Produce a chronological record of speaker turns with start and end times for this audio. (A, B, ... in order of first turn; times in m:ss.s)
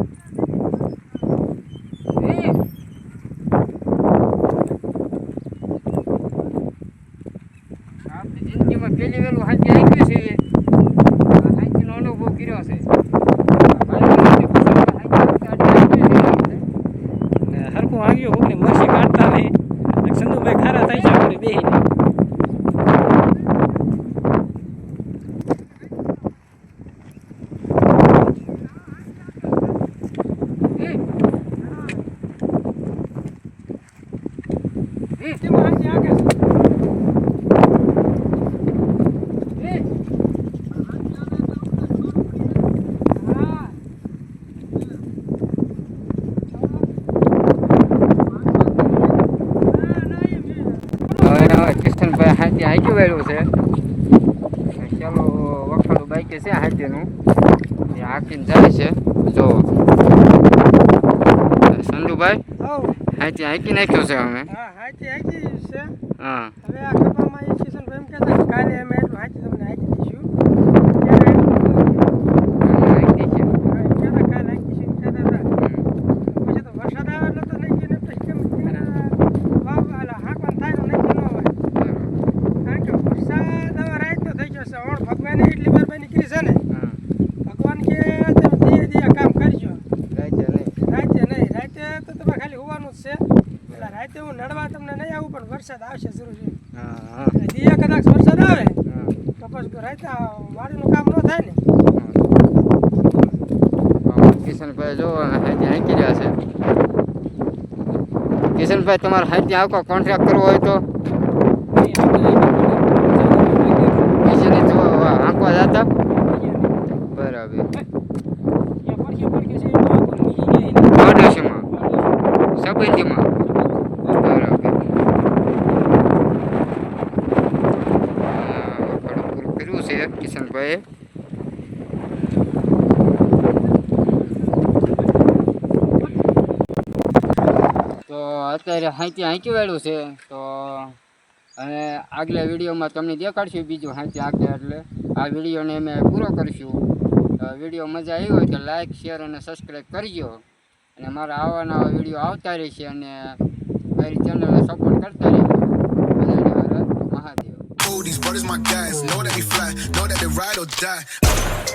0:02.2-0:02.6 A
0:08.1-0:10.4 A
0:11.3-0:12.9 A
0:13.6-0:16.6 A
0:17.4-0:21.8 B
0:35.4-0:36.4 C
0:41.0-0:42.3 C
0:43.1-0:43.8 C
0:46.5-0:46.9 C
0:48.3-0:51.7 C
0:51.2-0:53.5 A
0:54.7-0:57.1 A
0:57.9-0:59.7 A
1:01.7-1:02.4 A
1:02.6-1:03.0 C
1:03.1-1:04.5 A
1:04.5-1:05.9 C
1:06.2-1:06.6 A
1:06.6-1:10.3 C
1:10.9-1:12.1 C
1:12.6-1:13.6 A
1:13.6-1:15.5 C
1:15.6-1:15.9 A
1:16.2-1:21.6 C
1:21.8-1:22.2 A
1:22.6-1:26.6 C
1:26.7-1:27.0 A
1:27.4-1:29.8 C
1:30.1-1:30.8 A
1:30.8-1:36.6 C
1:33.7-1:33.9 A
1:36.7-1:37.4 A
1:37.4-1:38.8 C
1:38.9-1:39.2 A
1:39.4-1:41.6 C
1:41.9-1:42.3 A
1:44.0-1:46.4 A
1:48.5-1:50.9 A
1:51.7-1:54.2 B
1:54.2-1:55.9 A
1:56.2-1:56.8 B
1:57.0-1:57.7 A
1:58.8-2:01.0 B
2:00.9-2:01.7 A
2:01.7-2:02.2 B
2:02.6-2:03.3 A
2:04.0-2:04.8 A
2:08.2-2:10.8 A
2:18.1-2:21.0 A
2:21.6-2:26.9 A
2:27.4-2:30.4 A
2:31.0-2:33.4 A
2:34.0-2:37.7 A
2:37.8-2:41.3 D